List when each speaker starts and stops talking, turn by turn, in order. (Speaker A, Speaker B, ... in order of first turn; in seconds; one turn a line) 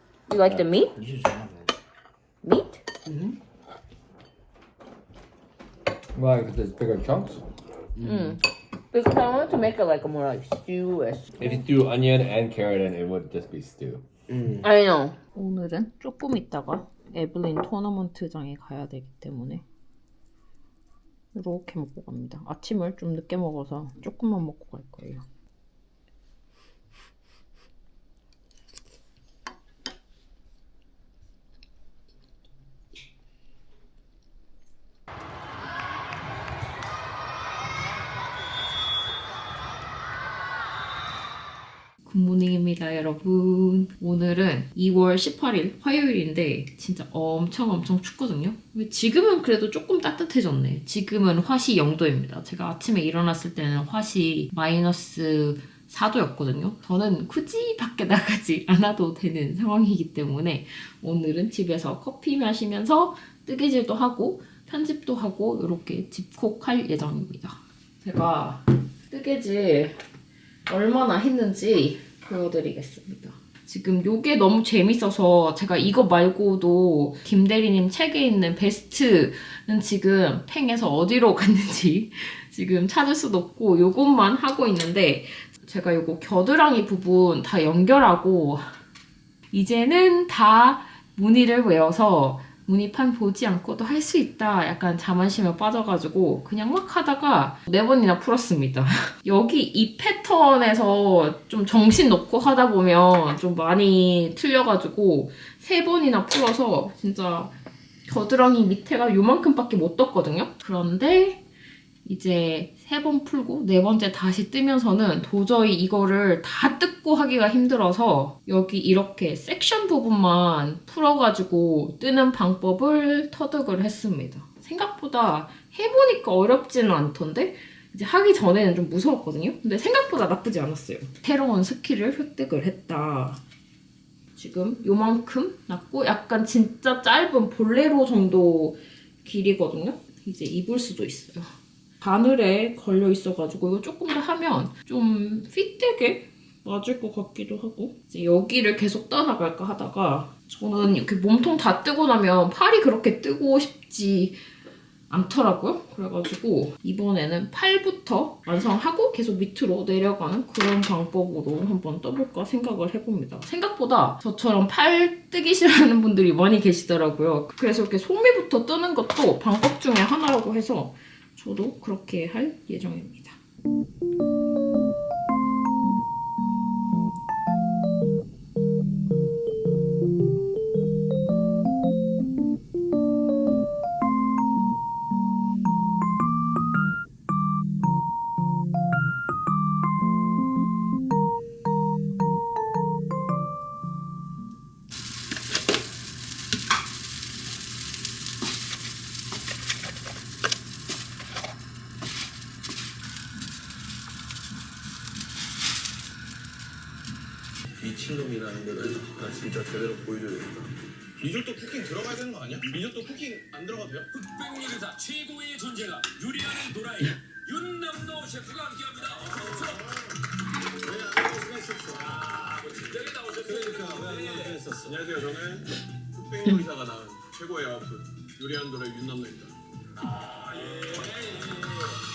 Speaker A: 0.3-0.9
Speaker B: 0.9-1.7
Speaker A: 2.4-2.8
Speaker B: 3.0-3.4
Speaker C: 6.1-7.4
Speaker B: 8.0-8.4
Speaker A: 8.0-11.3
Speaker C: 11.4-14.0
Speaker B: 14.3-14.6
Speaker A: 14.6-19.6
Speaker A: 21.3-25.2
Speaker A: 42.0-70.0
Speaker A: 70.7-88.6
Speaker A: 89.5-107.5
Speaker A: 108.1-111.4
Speaker A: 112.0-133.4
Speaker A: 134.3-154.4
Speaker A: 155.1-173.4
Speaker D: 207.8-214.1
Speaker E: 214.1-219.8
Speaker D: 219.3-220.1
Speaker D: 220.8-229.6
Speaker E: 222.1-224.9
Speaker E: 230.2-231.9